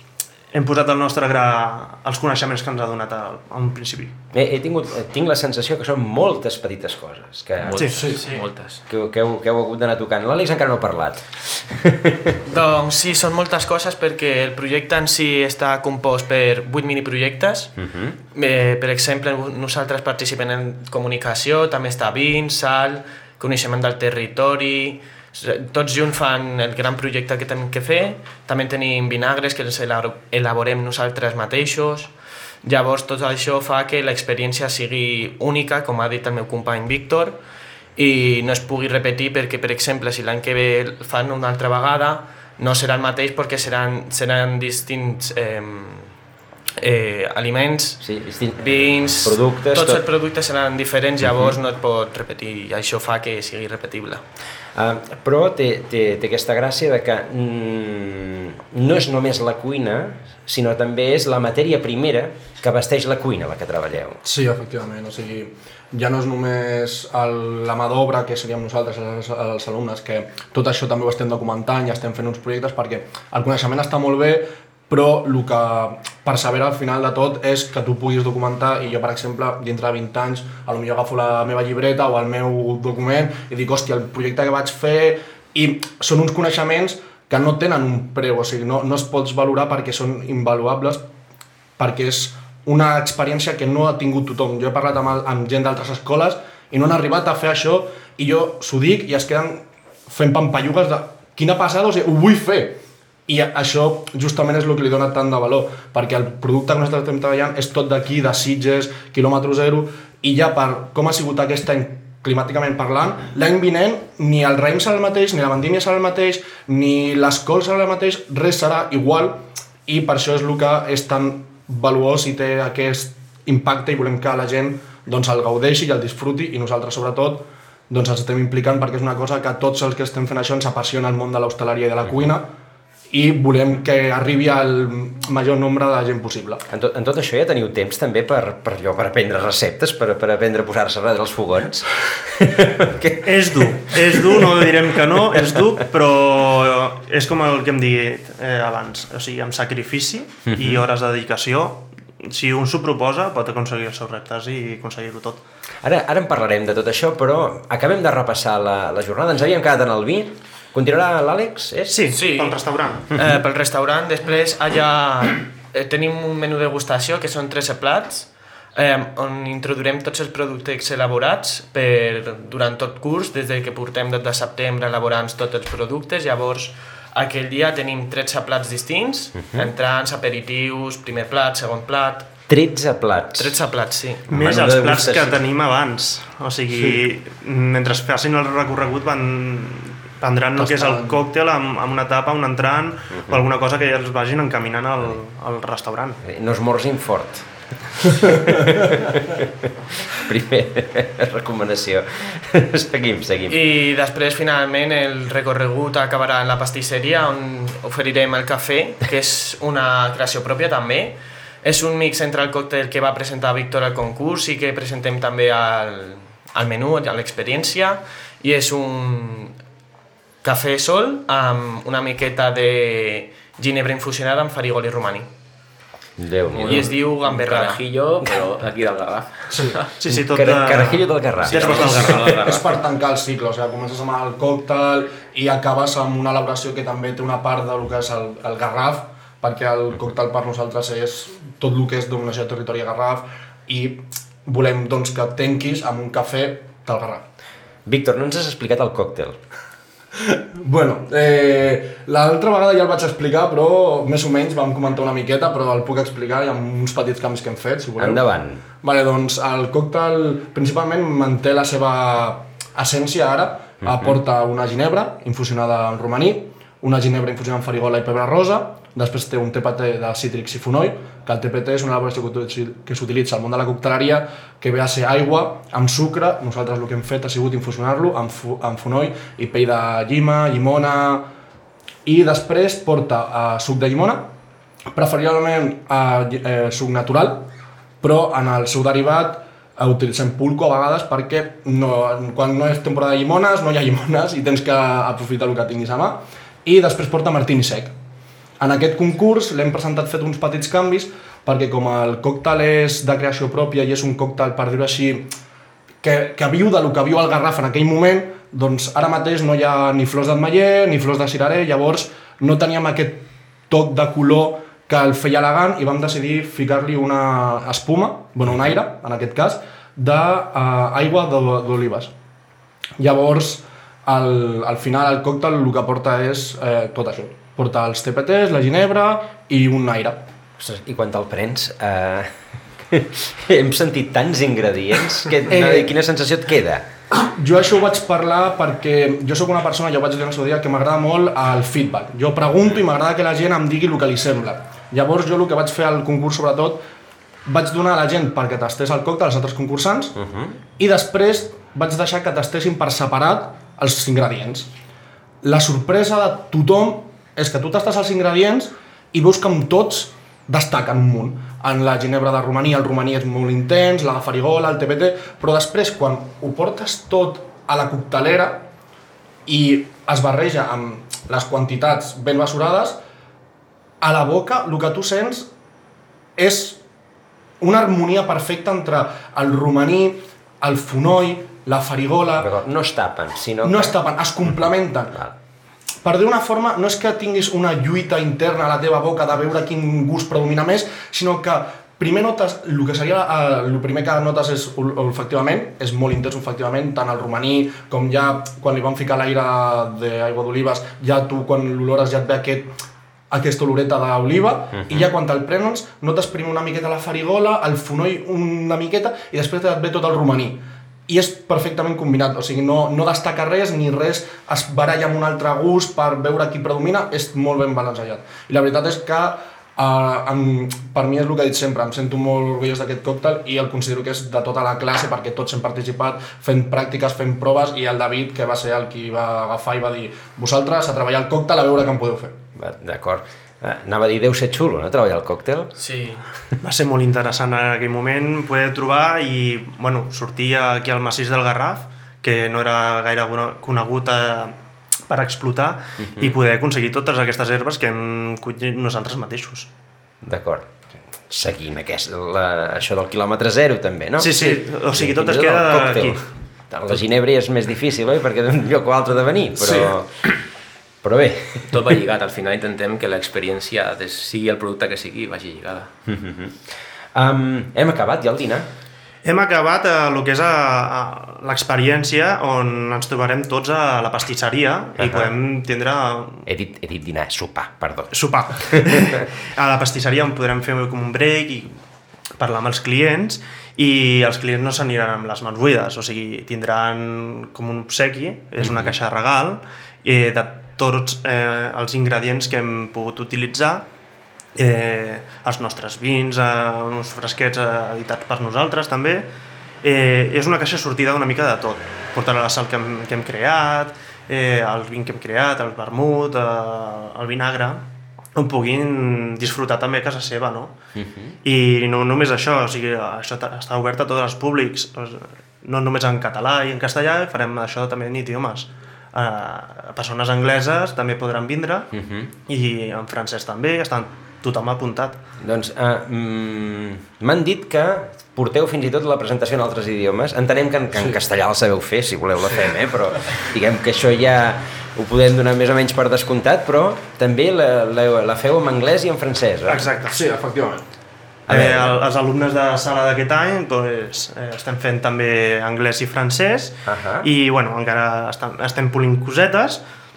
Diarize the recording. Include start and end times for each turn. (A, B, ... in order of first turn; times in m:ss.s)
0:00.5-0:04.1 A
0:04.3-0:08.1 B
0:07.6-0:08.8 C
0:07.7-0:08.2 A
0:08.9-0:12.4 B
0:12.5-0:17.7 D
0:17.8-0:18.2 B
0:18.3-0:32.1 D
0:32.6-0:37.4 D
0:38.0-0:46.1 D
0:46.8-0:48.0 D
0:48.0-0:50.0 B
0:48.6-0:54.2 D
0:54.8-1:04.2 B
1:04.2-1:31.0 E
1:31.8-2:12.5 E
2:13.1-2:16.6 E
2:16.7-2:25.7 B
2:23.2-2:35.4 A
2:30.5-2:30.8 B
2:35.8-2:42.1 B
2:41.9-2:43.1 A
2:42.1-3:02.3 D
2:59.4-2:59.7 B
3:02.5-3:03.6 B
3:03.4-3:04.3 D
3:04.3-3:05.4 B
3:04.3-3:16.2 A
3:10.7-3:11.2 E
3:16.2-3:23.6 B
3:23.5-3:39.5 D
3:40.4-3:45.3 D
3:46.2-3:47.0 B
3:46.5-3:49.9 C
3:46.6-3:47.8 D
3:50.0-3:52.4 A
3:50.1-3:52.2 B
3:51.5-3:52.8 C
3:51.8-4:07.2 E
4:07.9-4:09.4 B
4:10.2-4:18.2 E
4:18.0-4:18.6 B
4:18.8-4:41.3 E
4:23.9-4:24.2 B
4:42.0-4:44.3 E
4:45.0-4:47.5 E
4:48.0-4:57.9 E
4:58.6-5:05.3 E
5:06.0-5:22.1 E
5:23.0-5:30.3 E
5:30.6-5:32.3 B
5:32.9-5:36.9 B
5:35.5-5:35.9 E
5:37.1-5:46.8 E
5:47.5-5:50.2 E
5:50.2-5:50.6 B
5:50.8-5:54.7 E
5:55.4-6:08.7 E
6:09.5-6:13.0 E
6:14.0-6:15.5 E
6:16.4-6:16.8 E
6:17.6-6:22.5 E
6:22.4-6:24.0 B
6:23.6-6:25.2 E
6:26.0-6:42.7 E
6:43.3-7:12.4 E
7:12.6-7:15.7 B
7:15.8-7:16.2 D
7:16.6-7:24.6 A
7:25.1-7:29.7 A
7:30.2-7:30.7 B
7:31.3-7:40.4 B
7:34.2-7:36.2 A
7:41.0-7:41.8 B
7:41.7-7:45.9 C
7:46.1-7:46.6 B
7:47.1-7:48.7 B
7:49.2-7:56.5 A
7:55.0-7:55.3 B
7:56.5-7:59.0 B
7:58.1-8:01.8 A
8:02.4-8:13.9 A
8:08.6-8:08.9 B
8:14.6-8:19.3 A
8:19.8-8:30.7 A
8:31.0-8:31.3 B
8:31.4-8:41.9 A
8:41.9-8:42.3 B
8:42.5-8:45.2 A
8:45.4-8:59.9 B
8:59.7-9:00.2 A
9:00.1-9:00.8 E
9:01.5-9:02.0 B
9:01.5-9:09.8 A
9:06.9-9:07.3 B